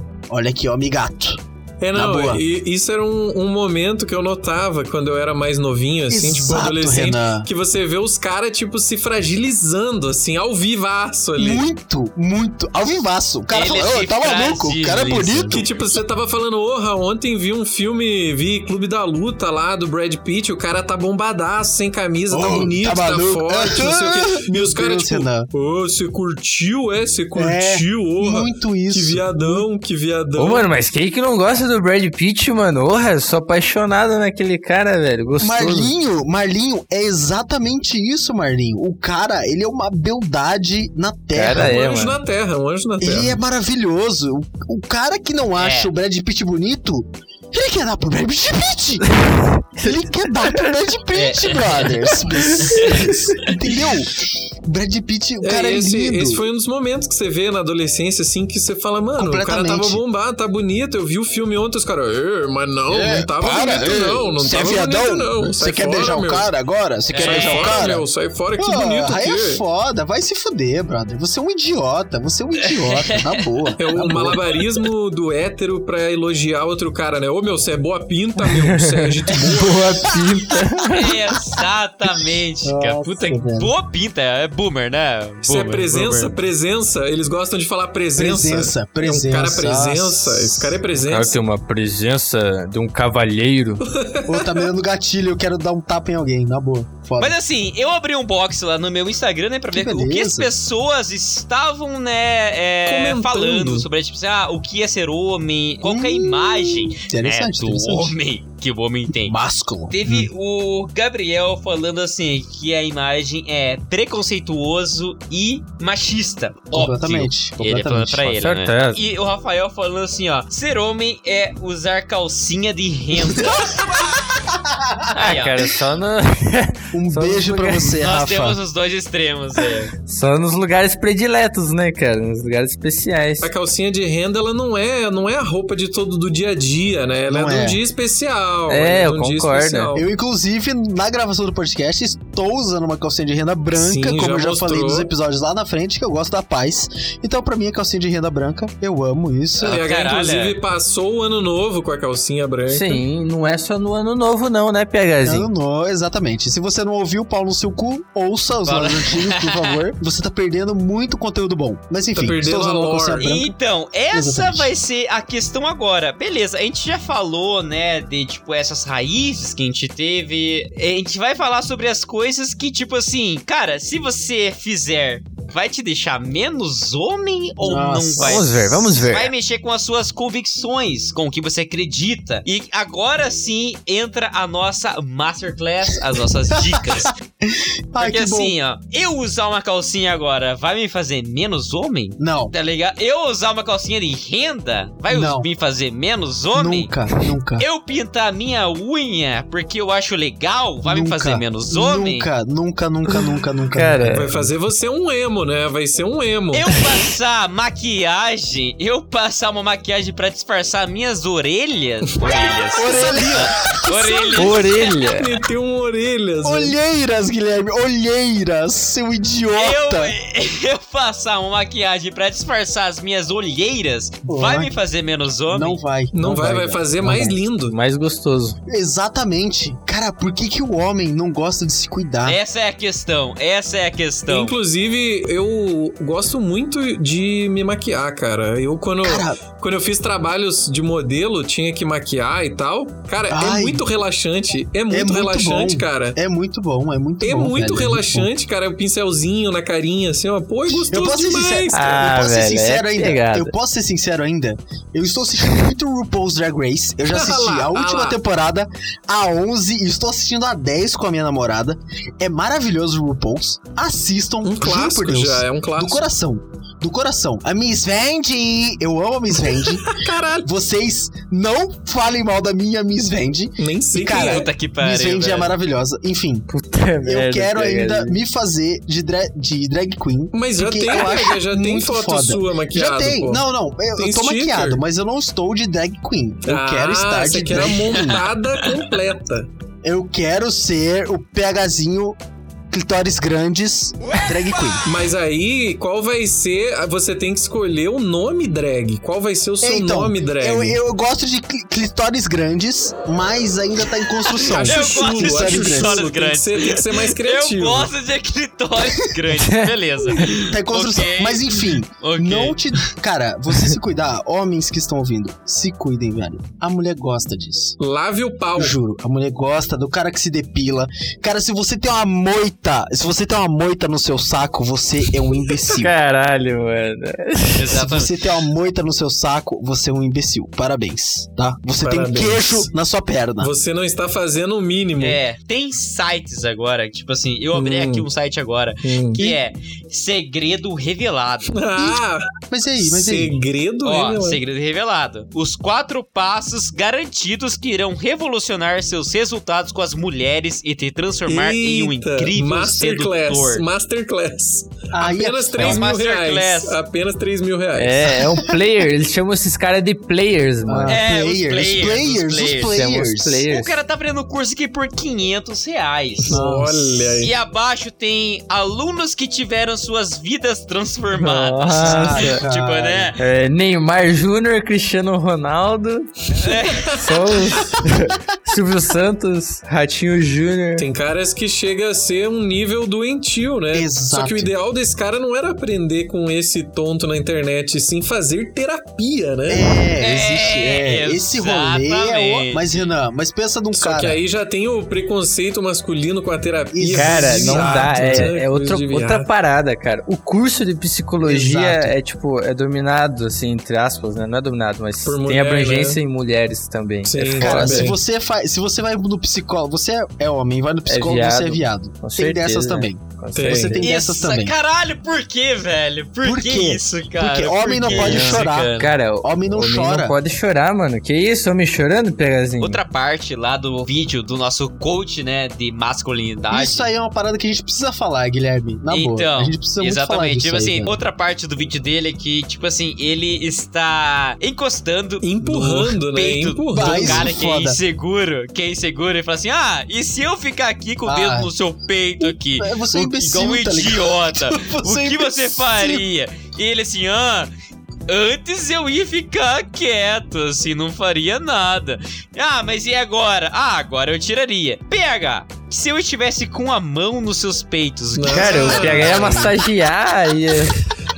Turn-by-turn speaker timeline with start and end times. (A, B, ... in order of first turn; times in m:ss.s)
0:00.3-0:01.4 A
0:01.8-0:11.6 B
0:01.9-0:02.4 A
0:06.1-0:07.5 A
0:11.4-0:15.7 A
0:13.5-0:15.6 C
0:15.5-0:30.6 B
0:22.3-0:25.5 A
0:27.3-0:29.6 A
0:30.4-0:35.9 D
0:35.4-0:41.8 A
0:41.3-0:42.2 D
0:41.5-0:43.4 B
0:43.0-0:49.1 A
0:45.6-0:45.9 C
0:49.0-0:50.8 D
0:49.8-0:56.5 A
0:51.1-0:52.0 C
0:52.3-0:53.1 D
0:52.6-0:53.0 C
0:55.4-1:06.5 B
0:59.2-1:00.0 A
1:02.9-1:14.6 A
1:07.1-1:07.8 C
1:07.2-1:09.6 B
1:12.6-1:13.7 C
1:13.8-1:19.8 B
1:18.4-1:21.1 D
1:19.3-1:20.2 A
1:20.9-1:26.4 C
1:22.6-1:23.7 A
1:25.4-1:31.4 B
1:28.1-1:30.8 A
1:30.9-1:33.8 D
1:33.8-1:34.7 B
1:34.2-1:37.4 A
1:37.2-1:49.4 C
1:39.7-1:40.5 A
1:42.9-1:43.9 B
1:45.8-1:48.1 A
1:49.1-1:50.3 A
1:49.9-2:04.2 C
1:56.7-1:58.4 A
1:58.3-1:59.0 D
2:03.3-2:05.1 A
2:05.1-2:05.7 C
2:05.1-2:08.0 D
2:06.9-2:08.6 A
2:08.0-2:09.9 C
2:10.1-2:13.5 D
2:13.4-2:20.1 B
2:17.3-2:17.8 A
2:18.7-2:19.9 D
2:19.9-2:29.8 A
2:23.7-2:25.1 B
2:29.6-2:30.6 C
2:29.6-2:33.0 B
2:32.7-2:35.5 D
2:35.2-2:43.6 A
2:38.6-2:39.8 C
2:42.1-2:43.3 B
2:43.2-3:07.1 C
2:44.1-2:44.7 A
2:57.6-2:58.5 A
2:58.2-2:59.3 D
3:06.5-3:08.6 A
3:08.0-3:16.9 C
3:12.2-3:12.5 A
3:15.1-3:15.5 A
3:16.5-3:17.6 A
3:17.6-3:22.3 C
3:20.8-3:24.5 A
3:23.7-3:24.3 D
3:24.0-3:26.6 B
3:26.5-3:34.9 C
3:32.2-3:33.2 B
3:32.7-3:34.5 A
3:34.4-3:35.3 D
3:35.1-3:36.7 B
3:36.4-3:40.1 A
3:39.5-3:45.8 C
3:44.2-3:44.7 A
3:45.5-3:47.4 A
3:46.1-3:47.8 B
3:47.1-3:48.6 D
3:48.7-3:52.4 A
3:52.2-3:54.5 C
3:54.3-4:06.2 B
3:59.0-3:59.4 A
4:03.3-4:03.8 A
4:04.9-4:08.3 A
4:07.2-4:12.0 B
4:10.7-4:36.5 A
4:11.7-4:13.5 D
4:17.1-4:18.2 B
4:24.4-4:26.0 B
4:29.4-4:30.5 B
4:33.6-4:34.5 B
4:34.1-4:35.5 C
4:36.5-4:38.2 D
4:37.0-4:48.2 A
4:40.3-4:43.4 B
4:44.0-4:44.8 B
4:46.4-4:49.5 B
4:47.9-4:48.6 C
4:49.8-4:52.2 A
4:52.7-4:54.8 A
4:54.8-5:00.8 B
4:59.6-5:06.0 A
5:04.4-5:12.8 C
5:04.5-5:07.9 B
5:09.3-5:10.3 D
5:10.2-5:17.8 A
5:17.8-5:18.8 B
5:18.5-5:25.9 A
5:25.7-5:27.7 D
5:27.6-5:28.1 C
5:27.7-5:33.5 A
5:31.8-5:32.7 B
5:33.4-5:35.2 B
5:35.0-5:41.5 C
5:37.5-5:38.1 B
5:38.8-5:39.2 B
5:41.5-5:42.2 B
5:41.8-5:43.4 A
5:42.8-5:44.4 B
5:43.8-5:53.6 C
5:51.3-5:58.2 B
5:54.9-5:55.8 A
5:55.6-5:56.8 C
5:57.7-6:01.0 D
6:00.6-6:03.4 A
6:00.9-6:02.8 C
6:02.7-6:03.7 D
6:03.5-6:06.4 C
6:06.2-6:07.3 B
6:06.2-6:07.0 A
6:07.2-6:13.2 C
6:11.2-6:12.4 D
6:11.8-6:13.1 A
6:13.2-6:16.1 D
6:16.4-6:17.0 C
6:16.4-6:17.7 B
6:16.9-6:20.9 D
6:20.8-6:29.7 B
6:23.7-6:24.5 A
6:29.5-6:34.2 A
6:30.0-6:32.8 C
6:33.7-6:39.3 B
6:36.7-6:38.3 A
6:36.9-6:48.0 D
6:41.2-6:42.0 A
6:45.0-6:46.0 B
6:47.0-6:48.0 B
6:47.3-6:54.5 A
6:50.8-6:53.8 D
6:53.3-6:53.8 B
6:53.8-6:58.9 C
6:56.2-7:00.2 A
6:57.9-7:02.8 D
7:02.6-7:06.9 C
7:06.5-7:11.0 A
7:08.9-7:27.5 C
7:15.2-7:17.3 B
7:16.7-7:17.8 A
7:21.0-7:21.5 A
7:22.2-7:26.0 A
7:28.1-7:39.5 C
7:38.1-7:39.5 B
7:38.2-7:40.9 D
7:38.8-7:39.4 A